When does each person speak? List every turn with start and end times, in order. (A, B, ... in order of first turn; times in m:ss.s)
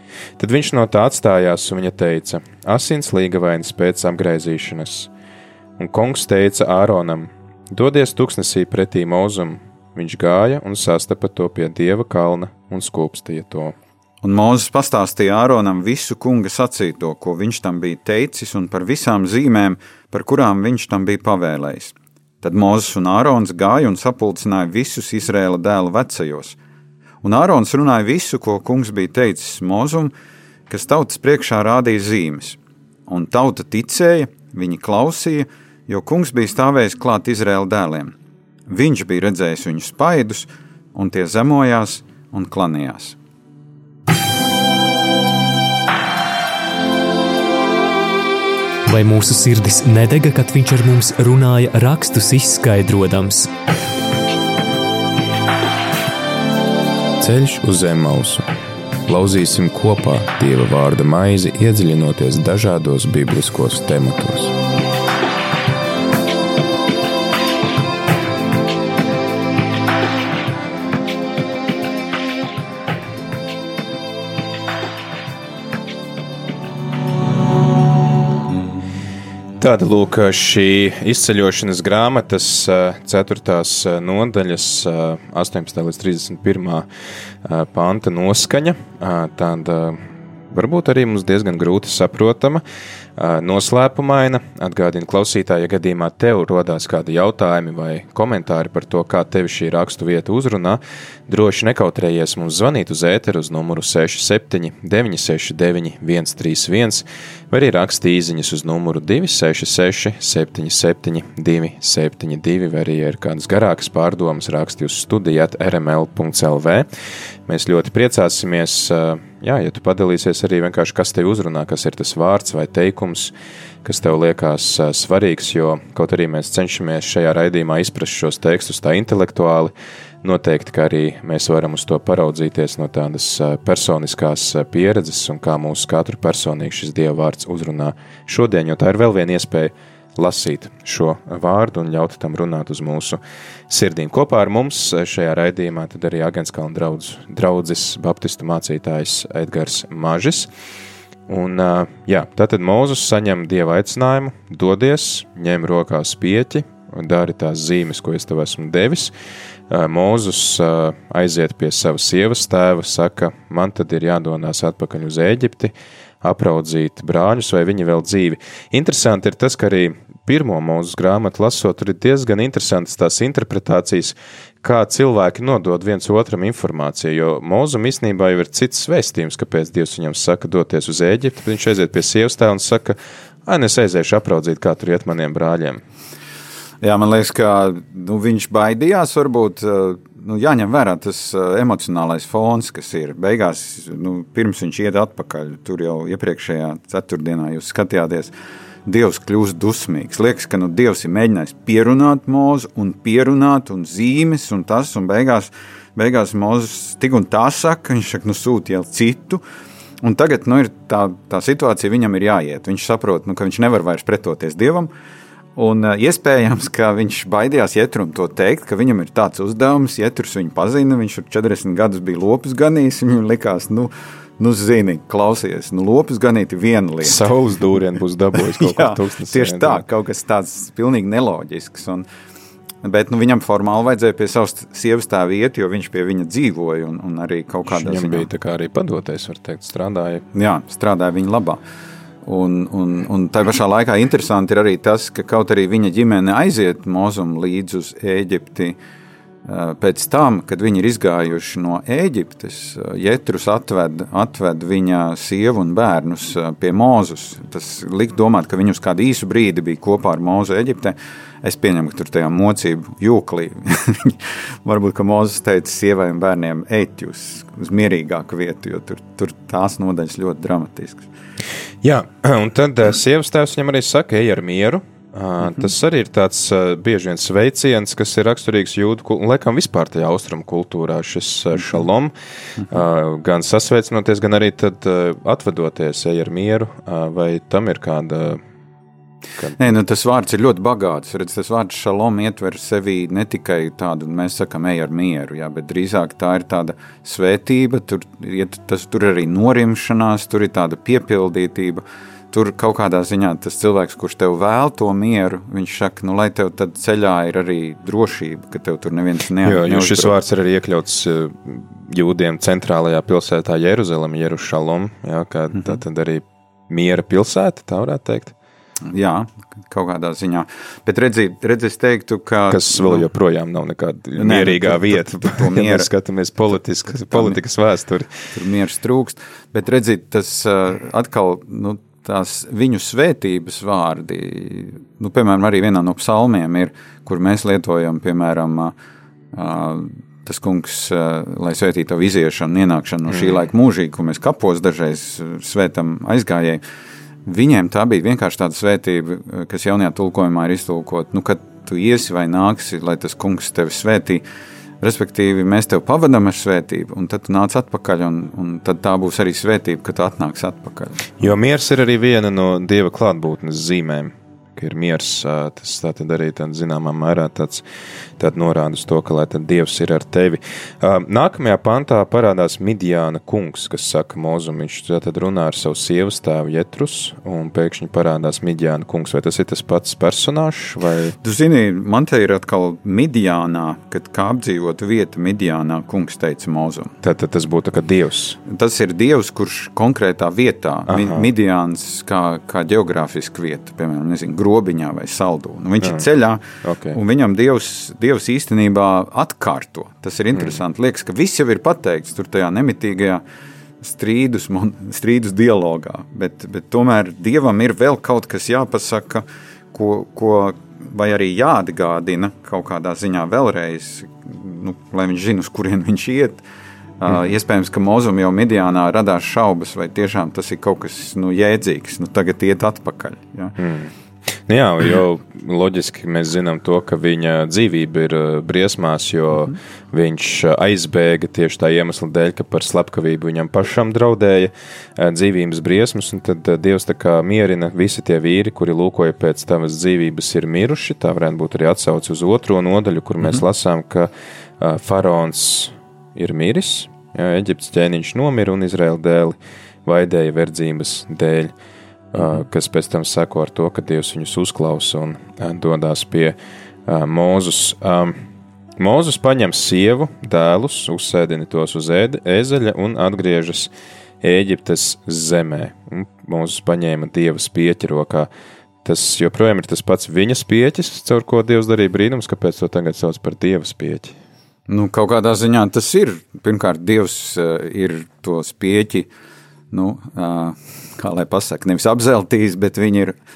0:00.4-0:05.1 A
0:05.8-0:13.8 A
0:14.2-0:26.6 B
0:27.2-0:30.1 B
0:30.7-0:38.1 B
0:38.7-0:43.2 B
0:48.9-0:53.5 C
0:57.2-0:58.5 A
0:59.1-1:04.6 A
1:19.6-1:26.9 A
1:27.4-1:32.6 A
1:33.2-1:56.9 A
1:57.5-2:30.5 A
2:31.3-2:39.1 A
2:39.7-3:05.8 A
3:06.8-3:18.3 B
3:18.9-3:29.4 B
3:30.0-3:34.9 B
3:35.6-3:47.2 B
3:47.0-3:49.8 A
3:48.6-3:52.1 B
3:52.8-3:58.3 B
3:57.7-4:00.2 A
4:00.3-4:01.6 B
4:02.2-4:08.8 B
4:09.5-4:31.1 B
4:31.8-4:42.1 A
4:42.6-4:48.4 A
4:49.4-4:49.8 A
4:49.6-5:10.2 B
5:09.4-5:18.4 A
5:18.9-5:23.1 B
5:22.5-5:28.1 A
5:24.2-5:25.9 B
5:27.0-5:27.4 B
5:28.3-5:38.7 B
5:39.3-5:46.6 B
5:47.3-5:54.2 B
5:54.8-6:01.3 B
6:01.2-6:07.6 A
6:08.2-6:21.2 A
6:21.2-6:27.0 B
6:27.0-6:28.4 A
6:28.5-6:43.2 B
6:30.9-6:31.3 A
6:36.6-6:37.0 A
6:43.8-6:56.4 B
6:57.0-7:03.6 B
7:03.6-7:03.9 A
7:04.5-7:31.5 A
7:32.1-7:38.2 A
7:38.8-7:43.7 A
7:44.2-7:48.3 A
7:48.8-7:54.2 A
7:54.7-7:59.1 B
7:59.7-8:03.2 B